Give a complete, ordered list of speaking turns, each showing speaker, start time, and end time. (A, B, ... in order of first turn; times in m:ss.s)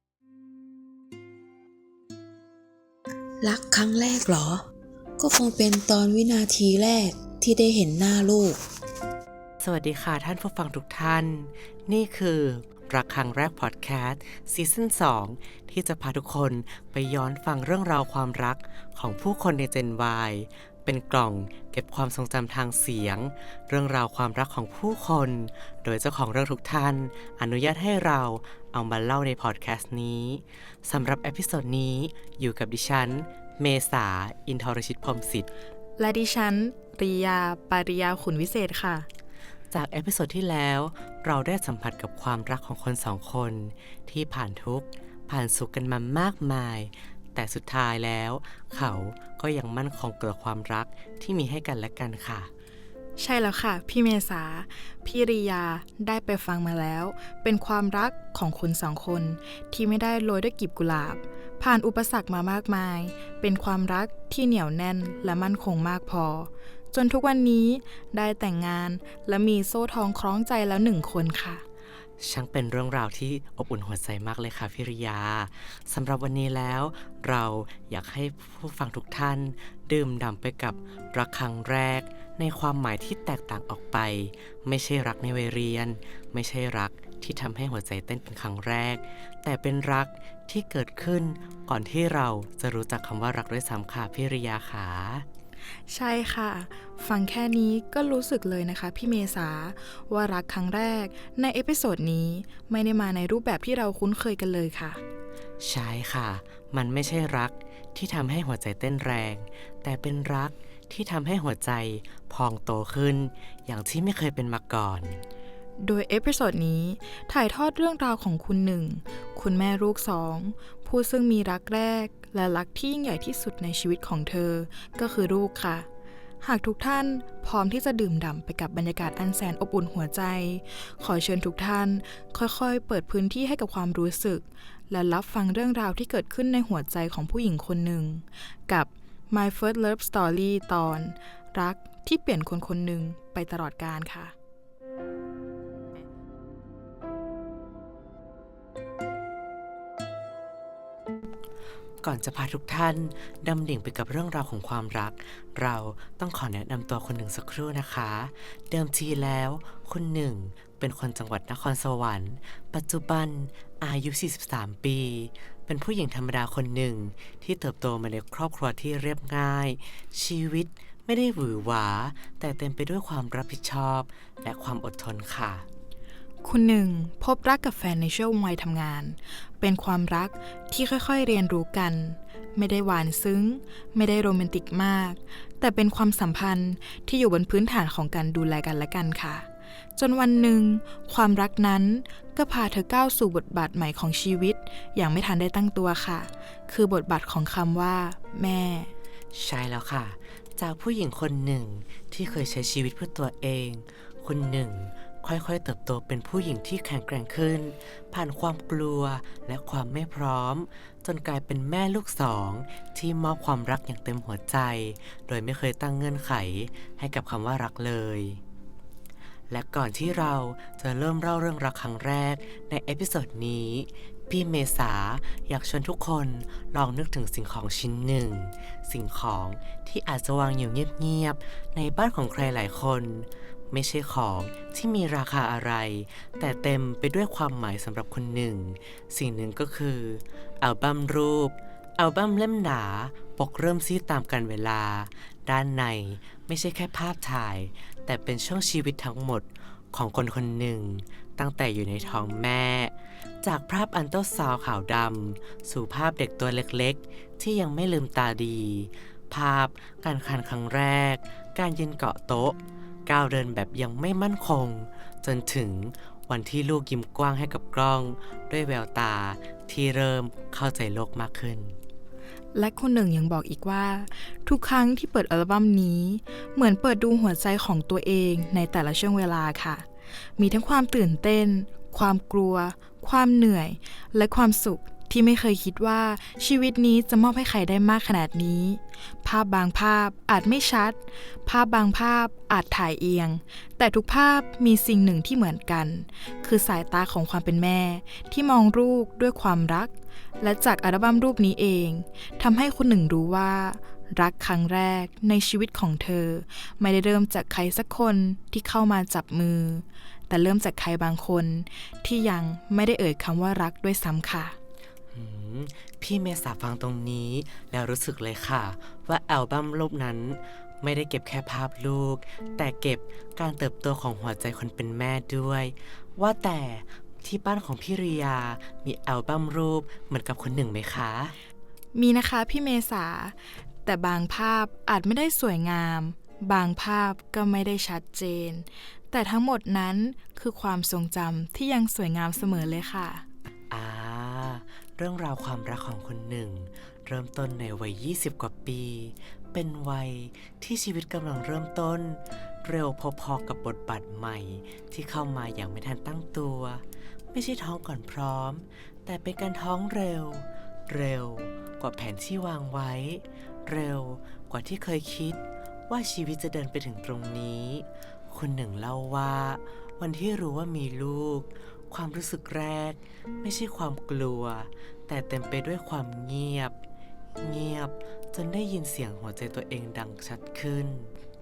0:03.4-0:04.6 A
0:05.2-0:08.6 A
0:09.6-0:35.5 B
0:36.0-0:39.1 C
0:39.7-0:52.5 B
0:53.2-1:11.6 C
1:12.2-1:35.2 B
1:35.9-1:45.0 C
1:45.6-1:55.2 B
1:55.8-2:05.9 C
2:06.4-2:24.3 C
2:32.0-2:55.7 B
2:56.4-3:18.9 C
3:19.3-3:38.4 B
3:39.5-4:31.8 B
4:32.5-4:39.9 C
4:40.4-5:14.6 C
5:15.1-5:31.4 B
5:31.9-5:43.2 C
5:43.7-6:16.8 B
6:17.4-6:21.1 B